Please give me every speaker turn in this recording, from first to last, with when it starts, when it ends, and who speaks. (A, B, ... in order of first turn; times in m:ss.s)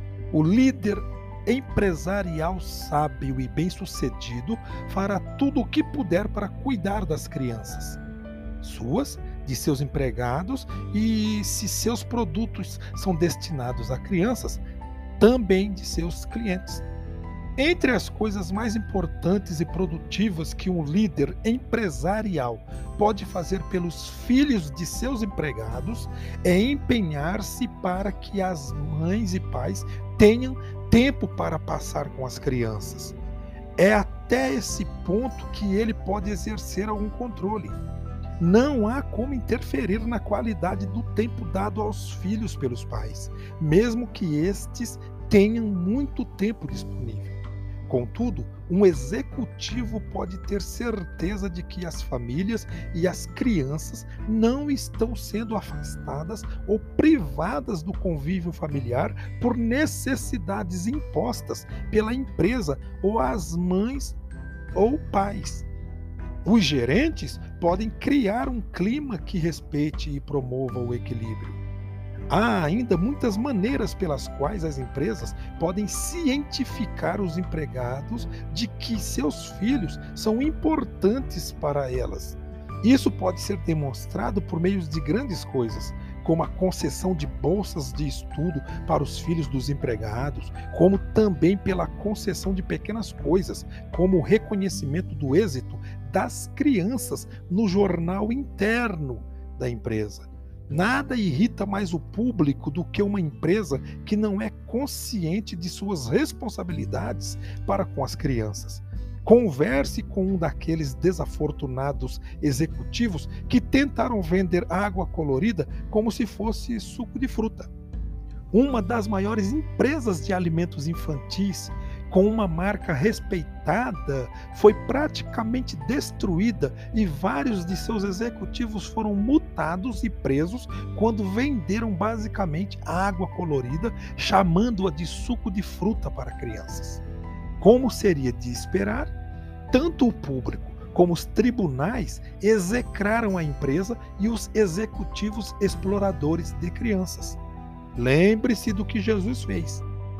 0:00.3-0:08.0 A
0:08.6-0:14.6 A
0:15.2-0:16.8 A
0:17.6-0:33.2 A
0:33.8-0:37.8 A
0:38.4-1:04.2 A
1:04.7-1:05.7 A
1:06.4-1:11.6 A
1:12.3-1:57.7 A
1:58.5-2:17.0 A
2:17.6-2:19.1 A
2:19.7-2:27.4 A
2:27.9-2:29.8 A